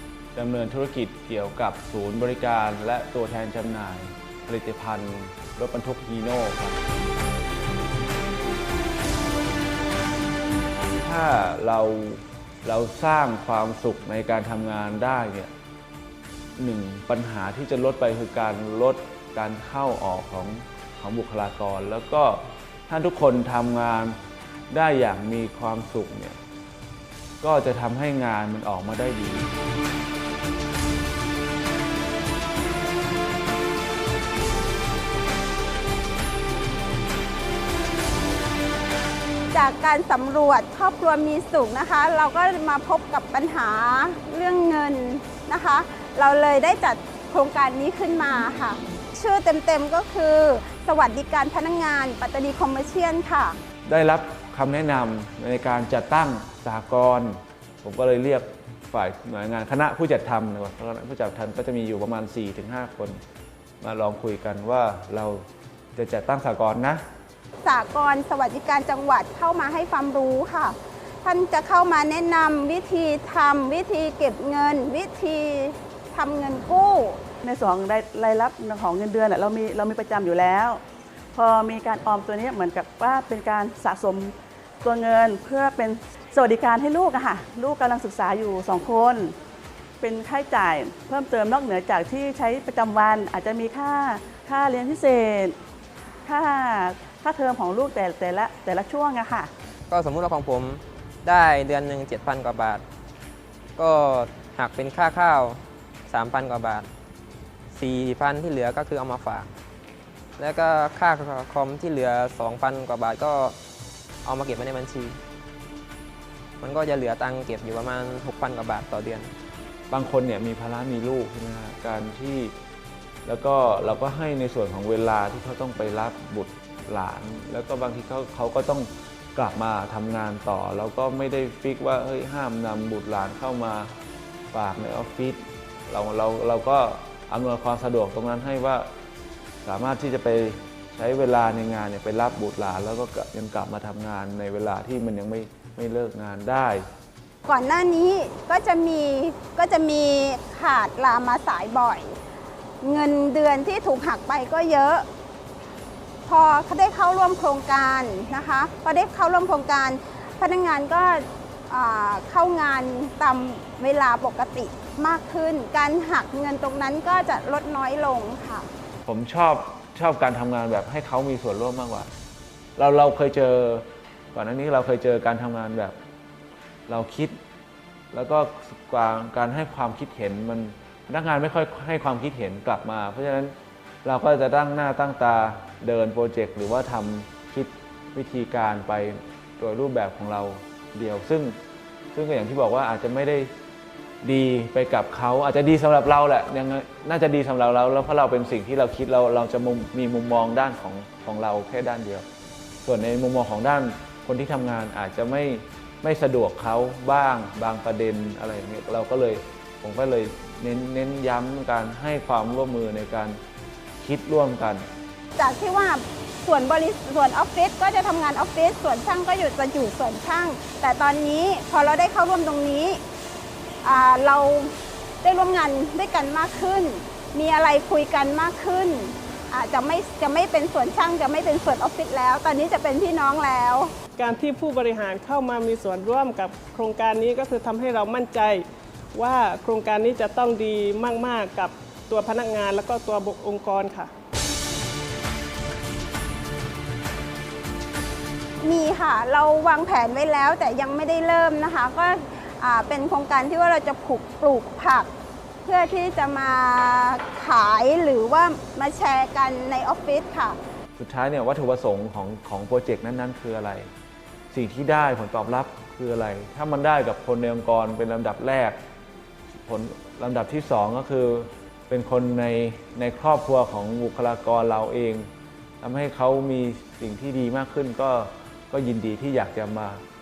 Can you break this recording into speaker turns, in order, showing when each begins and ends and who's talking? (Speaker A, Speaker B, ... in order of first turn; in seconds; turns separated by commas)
Speaker A: 0.3-6.8, Speaker A: 10.9-15.5, Speaker A: 16.6-24.2, Speaker A: 24.7-26.4, Speaker A: 27.4-29.5, Speaker B: 39.5-53.6, Speaker A: 53.9-63.2, Speaker A: 63.8-67.0, Speaker B: 67.6-77.2, Speaker C: 77.4-80.8, Speaker C: 81.3-89.3, Speaker C: 90.0-95.5, Speaker C: 96.2-99.5, Speaker D: 99.9-102.8, Speaker D: 103.8-106.9, Speaker D: 107.7-109.5, Speaker D: 110.4-113.5, Speaker D: 114.2-115.2, Speaker D: 116.6-119.3, Speaker A: 119.9-122.5, Speaker A: 123.2-133.9, Speaker A: 134.5-138.9, Speaker A: 139.6-146.8, Speaker B: 147.4-152.2, Speaker B: 152.8-155.1, Speaker B: 156.2-168.7, Speaker A: 169.0-172.1, Speaker A: 172.8-176.0, Speaker A: 176.9-177.3, Speaker A: 178.1-191.6, Speaker A: 192.1-193.5, Speaker A: 194.2-202.2, Speaker A: 202.8-213.4, Speaker A: 214.0-214.8, Speaker B: 215.3-223.0, Speaker B: 223.8-233.9, Speaker E: 234.2-244.1, Speaker B: 248.6-255.1, Speaker B: 255.6-260.6, Speaker A: 261.0-263.9, Speaker A: 264.5-268.8, Speaker A: 269.5-275.3, Speaker A: 275.8-280.0